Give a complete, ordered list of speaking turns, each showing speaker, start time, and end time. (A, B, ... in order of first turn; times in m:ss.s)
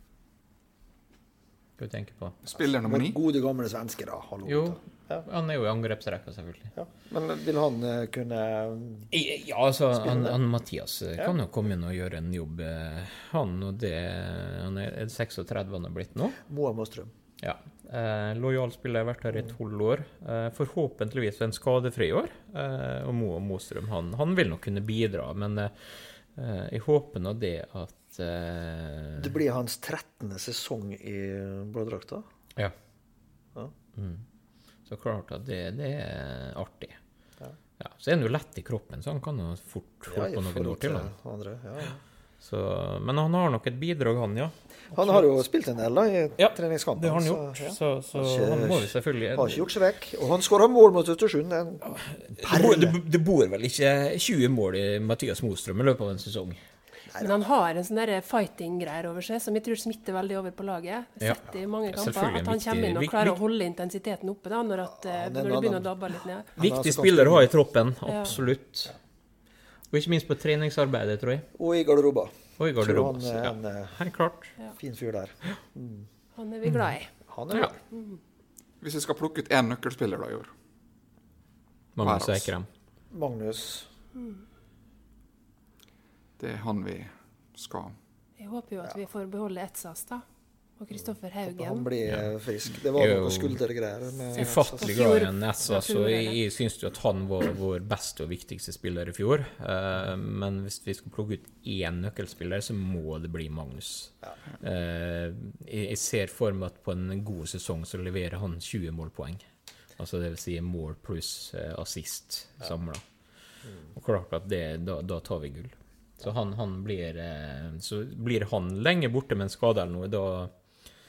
0:01.8-0:02.4 A
0:02.4-0:03.2 B
0:02.8-0:05.2 C
0:04.4-0:06.7 A
0:06.7-0:09.1 C
0:09.1-0:16.4 A
0:10.0-0:10.4 C
0:16.4-0:17.1 C
0:17.4-0:29.3 A
0:29.2-0:32.2 C
0:33.9-0:34.2 A
0:34.9-0:37.0 A
0:37.8-0:41.1 A
0:40.1-0:42.0 C
0:42.4-0:45.3 A
0:44.9-0:53.0 C
0:46.4-0:49.6 A
0:51.8-0:56.6 A
0:57.1-0:57.4 C
0:57.2-1:06.5 D
1:01.2-1:03.4 A
1:05.0-1:05.9 C
1:06.6-1:07.5 C
1:06.6-1:08.9 A
1:08.1-1:08.3 D
1:09.9-1:11.5 A
1:11.5-1:14.0 C
1:12.6-1:14.5 A
1:14.8-1:16.1 C
1:16.3-1:17.1 D
1:16.6-1:17.0 A
1:17.3-1:17.8 C
1:17.9-1:18.2 D
1:18.8-1:20.5 B
1:22.0-1:22.7 A
1:22.0-1:22.5 B
1:23.1-1:23.9 C
1:26.4-1:27.9 B
1:28.4-1:30.2 D
1:30.8-1:31.9 D
1:31.4-1:34.9 C
1:32.9-1:33.6 A
1:34.3-1:49.4 A
1:34.8-1:36.4 D
1:50.0-1:53.0 A
1:53.9-2:00.5 A